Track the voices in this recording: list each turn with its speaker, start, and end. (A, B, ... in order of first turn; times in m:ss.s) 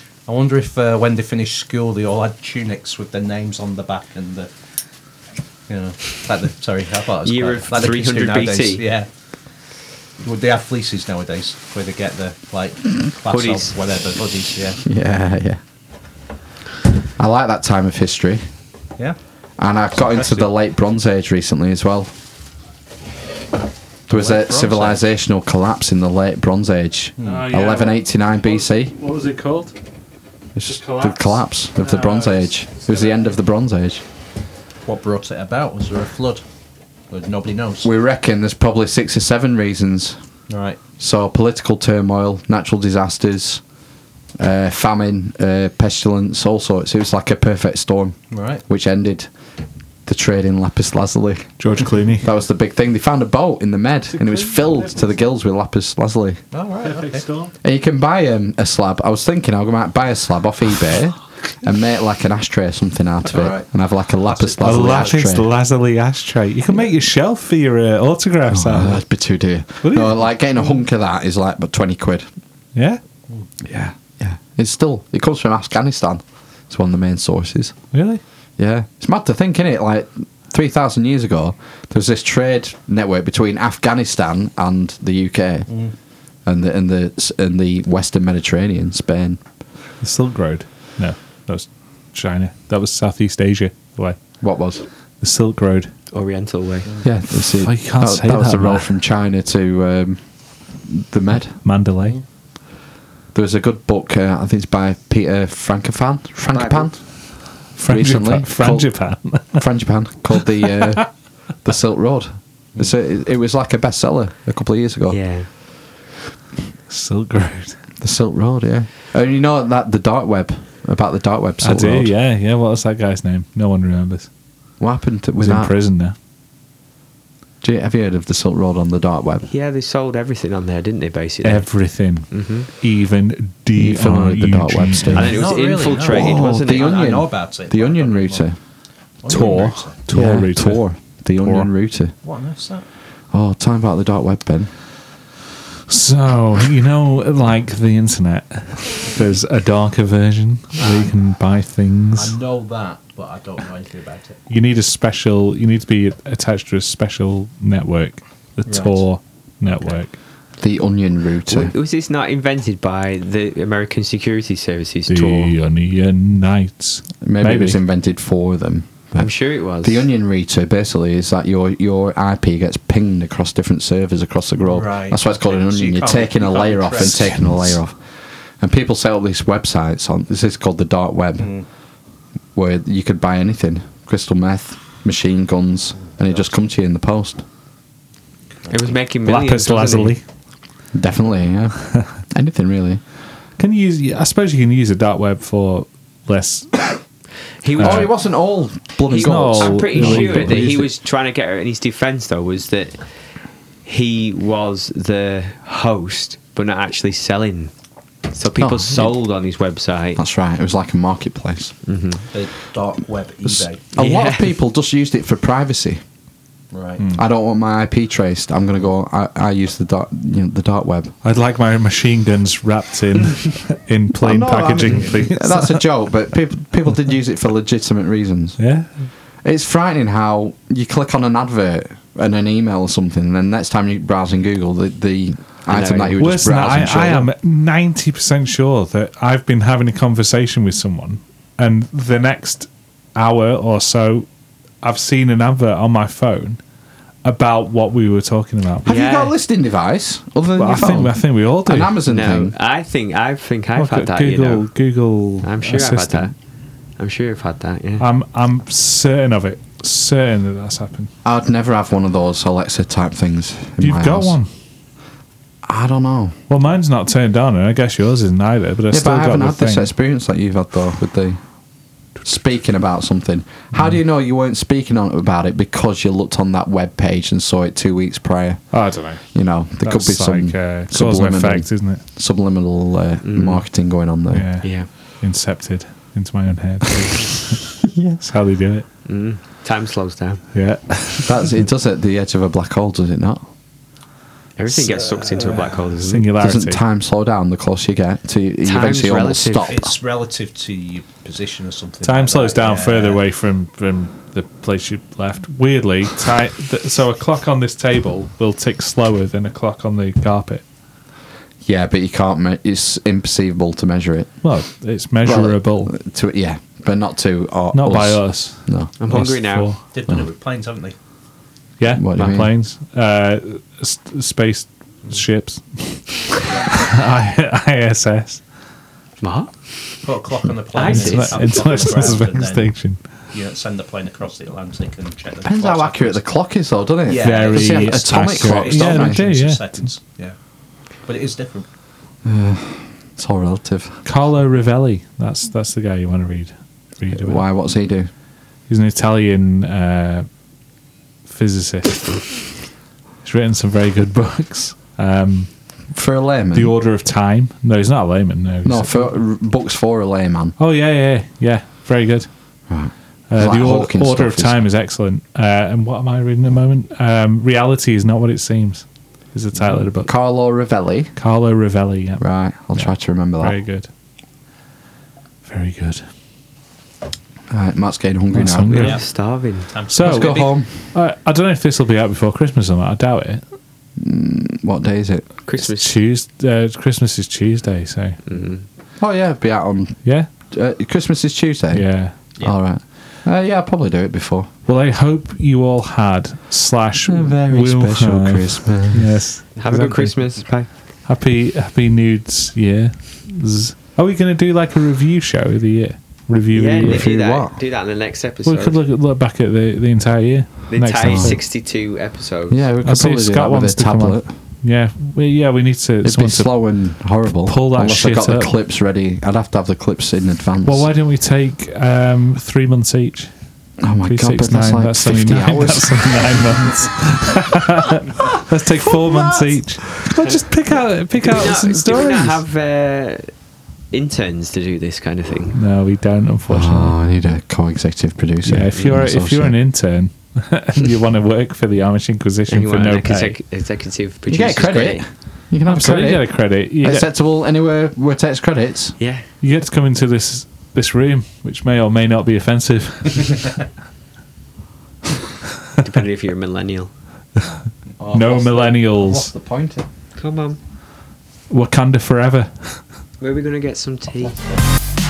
0:00.3-0:04.5 A
0:05.7-0:09.1 A
0:07.2-0:08.8 B
0:10.2-0:14.8 A
0:13.3-0:13.7 B
0:14.8-0:15.6 C
0:17.2-0:18.4 C
0:19.6-0:22.1 C
0:20.0-0:20.5 A
0:24.1-0:29.0 C
0:24.1-0:25.0 A
0:27.2-0:27.5 A
0:27.2-0:29.7 D
0:30.6-0:34.0 C
0:30.6-0:33.3 D
0:34.8-0:36.4 A
0:37.1-0:37.9 A
0:37.8-0:40.2 C
0:40.5-0:40.8 A
0:41.0-0:43.6 C
0:44.4-0:49.3 C
0:48.3-0:48.6 A
0:50.0-0:51.6 C
0:51.6-0:52.3 D
0:52.2-0:56.4 C
0:54.1-0:55.1 D
0:56.5-0:57.2 A
0:56.8-0:57.5 D
0:57.6-1:05.5 C
1:03.3-1:03.6 A
1:04.2-1:05.2 A
1:04.6-1:09.0 D
1:08.5-1:12.3 C
1:09.8-1:10.1 D
1:12.7-1:13.0 D
1:13.6-1:17.7 C
1:17.9-1:18.2 D
1:18.6-1:25.7 C
1:26.4-1:29.4 C
1:30.0-1:34.2 D
1:34.4-1:34.8 C
1:35.2-1:35.9 D
1:36.1-1:36.9 B
1:37.0-1:40.2 C
1:37.3-1:38.9 D
1:40.8-1:41.6 C
1:41.6-1:42.2 D
1:43.3-1:55.2 C
1:46.5-1:46.9 B
1:47.7-1:49.6 D
1:50.6-1:51.0 D
1:55.1-1:55.5 B
1:56.9-1:57.8 D
1:58.0-2:02.1 C
2:01.6-2:04.3 D
2:04.8-2:05.7 C
2:05.4-2:06.1 D
2:07.6-2:09.5 C
2:09.5-2:11.7 B
2:11.4-2:15.4 D
2:12.3-2:12.7 B
2:13.8-2:18.6 C
2:15.1-2:17.1 B
2:15.2-2:18.4 A
2:19.2-2:20.0 A
2:19.3-2:20.8 D
2:20.1-2:22.1 C
2:21.4-2:21.7 D
2:22.2-2:22.8 A
2:23.3-2:24.7 C
2:25.9-2:32.4 D
2:30.8-2:31.1 A
2:32.1-2:34.4 A
2:34.5-2:40.2 D
2:38.6-2:39.0 A
2:39.7-2:40.0 A
2:40.6-2:41.7 C
2:41.5-2:45.5 B
2:45.1-2:47.8 D
2:47.2-2:49.3 C
2:49.2-2:50.0 B
2:49.8-2:58.0 C
2:54.7-2:57.4 A
2:57.0-2:57.7 D
2:58.6-3:01.5 C
3:01.4-3:01.6 A
3:02.5-3:07.4 C
3:06.1-3:06.5 A
3:08.7-3:10.2 B
3:09.2-3:10.2 D
3:10.9-3:13.0 C
3:13.6-3:17.0 D
3:17.6-3:18.1 B
3:17.8-3:18.1 D
3:17.8-3:20.9 C
3:19.1-3:20.7 D
3:19.1-3:23.0 B
3:23.8-3:27.7 B
3:28.3-3:30.2 B
3:28.6-3:29.2 C
3:30.2-3:31.7 C
3:31.8-3:32.2 B
3:32.3-3:33.8 A
3:33.4-3:36.0 C
3:33.9-3:34.5 B
3:36.7-3:37.0 A
3:37.1-3:41.1 C
3:41.2-3:45.8 D
3:44.2-3:48.6 C
3:48.6-3:48.9 D
3:49.4-3:57.3 C
3:55.7-3:56.2 B
3:56.2-4:04.3 D
4:04.8-4:06.6 D
4:07.2-4:08.8 D
4:08.8-4:09.3 B
4:08.8-4:12.5 C
4:10.6-4:12.0 D
4:12.1-4:14.6 B
4:13.8-4:16.3 D
4:15.4-4:16.3 B
4:17.0-4:18.0 B
4:18.0-4:21.1 D
4:21.2-4:24.4 C
4:23.8-4:24.5 D
4:25.6-4:26.4 C
4:26.5-4:29.9 D
4:28.9-4:31.4 C
4:32.2-4:44.5 C
4:38.7-4:42.0 D
4:43.2-4:43.6 B
4:44.3-4:48.8 D
4:44.6-4:44.9 B
4:49.0-4:50.4 B
4:50.5-4:51.5 D
4:51.2-4:53.4 C
4:54.6-4:56.3 B
4:55.0-4:55.7 A
4:56.0-4:56.8 D
4:56.4-4:59.9 C
4:58.6-4:59.8 B
4:59.7-5:03.2 A
5:02.0-5:10.6 D
5:11.6-5:14.4 C
5:14.4-5:15.9 D
5:15.2-5:18.9 C
5:17.7-5:19.8 D
5:19.0-5:19.7 B
5:19.9-5:21.0 A
5:21.8-5:28.4 D
5:21.9-5:22.5 C
5:29.2-5:30.0 B
5:30.0-5:32.7 A
5:30.7-5:32.2 B
5:30.8-5:33.0 D
5:33.3-5:36.2 A
5:35.4-5:39.2 C
5:37.0-5:40.4 A
5:37.2-5:39.8 D
5:41.0-5:41.7 A
5:42.2-5:44.0 C
5:44.0-5:47.4 D
5:47.1-5:48.1 C
5:48.7-5:50.3 D
5:51.2-5:52.5 D
5:53.2-5:55.5 D
5:55.9-5:56.7 C
5:56.5-5:59.0 D
5:58.6-6:00.6 C
6:00.6-6:02.3 D
6:02.7-6:04.6 C
6:03.3-6:10.1 D
6:10.0-6:11.1 C
6:11.2-6:13.9 D
6:12.2-6:13.6 C
6:15.4-6:16.0 D
6:17.5-6:19.0 C
6:18.3-6:19.0 D
6:18.7-6:19.7 B
6:18.8-6:19.0 A
6:19.7-6:20.5 A
6:19.9-6:23.4 D
6:20.0-6:20.7 C
6:24.0-6:25.3 C
6:25.4-6:26.0 B
6:25.6-6:28.2 D
6:28.2-6:28.6 B
6:29.0-6:31.9 C
6:31.7-6:32.2 D
6:32.4-6:34.5 C
6:34.6-6:40.4 D
6:37.0-6:39.1 C
6:39.6-6:40.7 B
6:41.0-6:47.1 D
6:46.5-6:48.8 B
6:46.8-6:47.6 C
6:48.4-6:51.4 D
6:50.7-6:52.6 B
6:51.0-6:51.4 C
6:52.5-6:54.2 C
6:52.8-6:56.6 D
6:56.0-7:00.9 C
6:57.4-6:58.5 D
7:00.6-7:03.3 D
7:03.8-7:06.4 C
7:04.0-7:12.4 D
7:08.9-7:09.5 C
7:11.2-7:13.3 B
7:13.9-7:15.6 B
7:15.5-7:16.9 D
7:16.5-7:19.5 C
7:18.4-7:23.4 D
7:22.5-7:25.0 B
7:24.3-7:29.0 C
7:25.6-7:27.1 D
7:29.0-7:29.2 B
7:29.4-7:33.5 D
7:35.8-7:36.9 B
7:38.0-7:39.8 C
7:38.1-7:39.3 D
7:40.2-7:40.6 B
7:41.5-7:42.8 D
7:43.2-7:44.4 B